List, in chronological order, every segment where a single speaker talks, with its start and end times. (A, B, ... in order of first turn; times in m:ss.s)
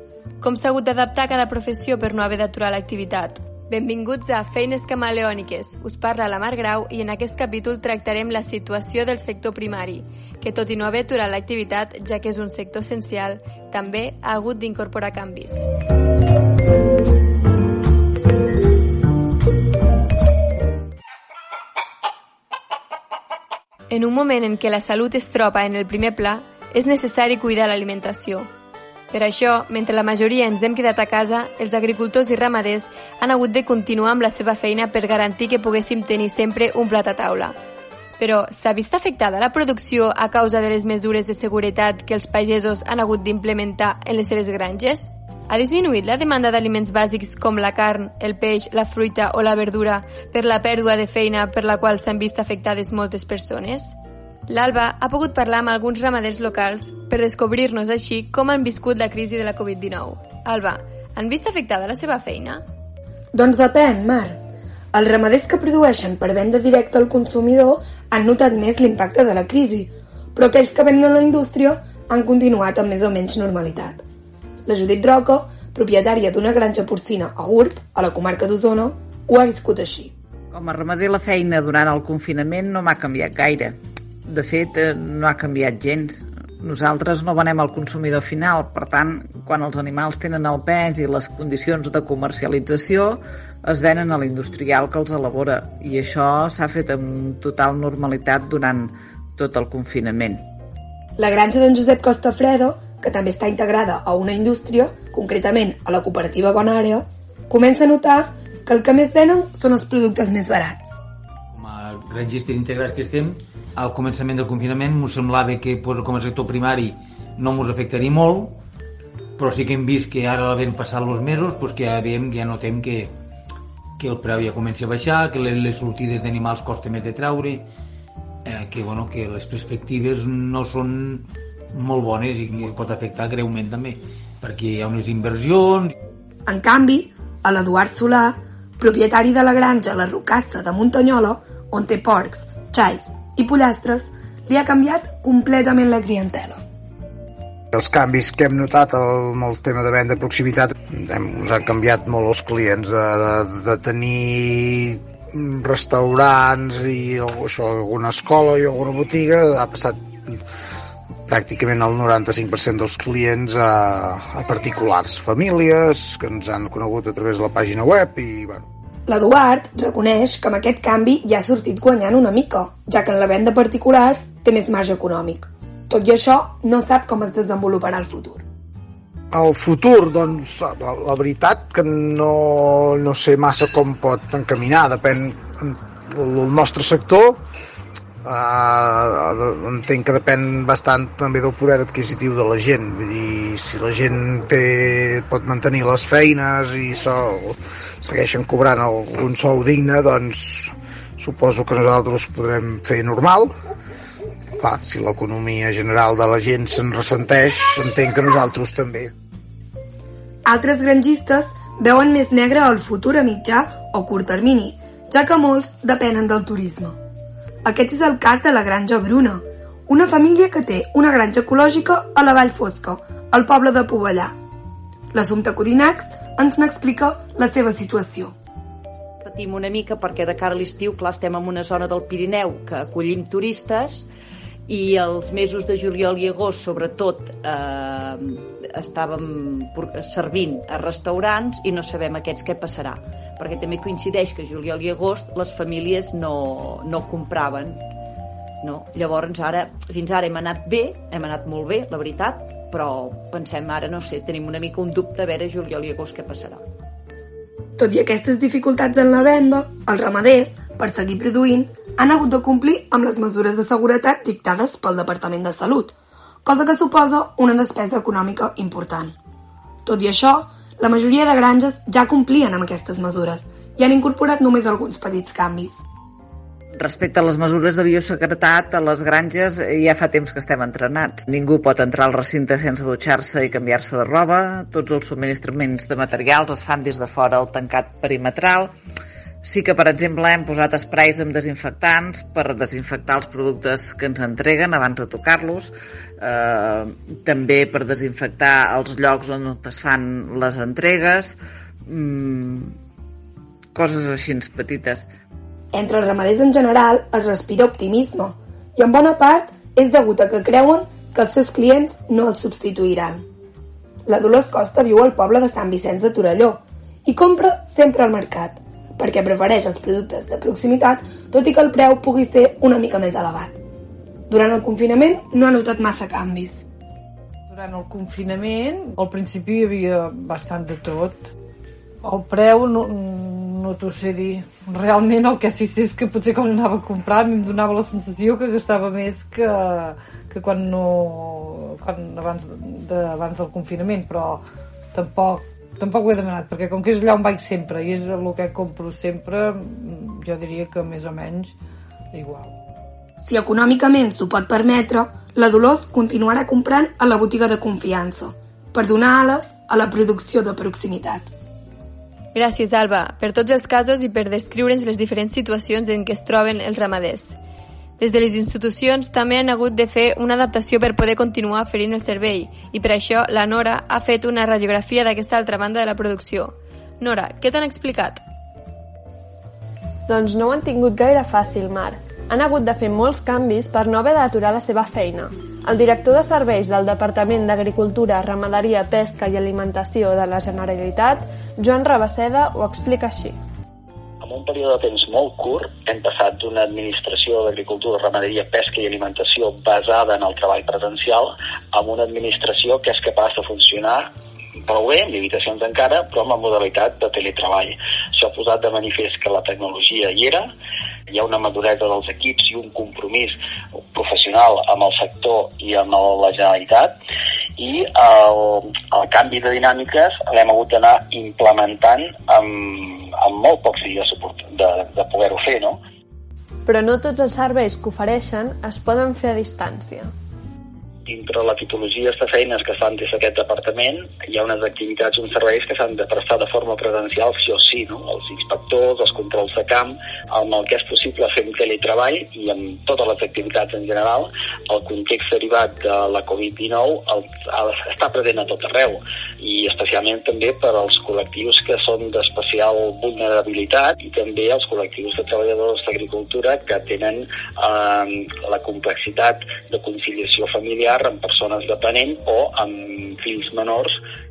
0:00.4-0:15.7 A
0:23.9-0:28.5 A
0:29.1-0:37.6 A
0:38.2-0:54.0 A
0:54.5-1:02.6 A
1:03.3-1:04.4 B
1:04.9-1:14.0 B
1:14.7-1:20.1 B
1:20.5-1:40.4 C
1:41.2-1:51.0 B
1:51.5-1:58.6 D
1:59.4-2:03.1 D
2:04.0-2:07.7 D
2:08.4-2:15.9 D
2:16.5-2:26.6 B
2:27.7-2:40.4 E
2:41.3-2:48.7 E
2:49.1-2:58.4 B
2:59.3-3:07.4 E
3:08.2-3:23.5 E
3:24.6-3:29.1 E
3:30.5-3:37.0 B
3:37.6-3:44.3 B
3:45.1-3:48.3 B
3:49.2-3:54.1 F
3:54.7-4:07.8 F
4:08.6-4:16.6 F
4:17.8-4:25.9 B
4:26.4-4:29.2 B
4:29.9-4:35.8 B
4:36.8-4:48.7 C
4:49.4-5:02.8 C
5:03.8-5:05.1 C
5:05.7-5:13.3 B
5:14.1-5:23.6 B
5:24.3-5:26.6 B
5:27.5-5:31.2 G
5:32.0-5:44.4 G
5:44.9-5:51.6 G
5:52.1-5:52.6 G
5:53.2-6:01.3 B
6:02.3-6:07.4 A
6:08.0-6:18.2 A
6:20.1-6:33.4 H
6:34.2-6:44.1 I
6:44.6-6:50.5 I
6:51.1-6:53.4 I
6:53.9-6:57.0 I
6:57.6-7:05.8 I
7:06.7-7:10.1 H
7:11.0-7:44.0 I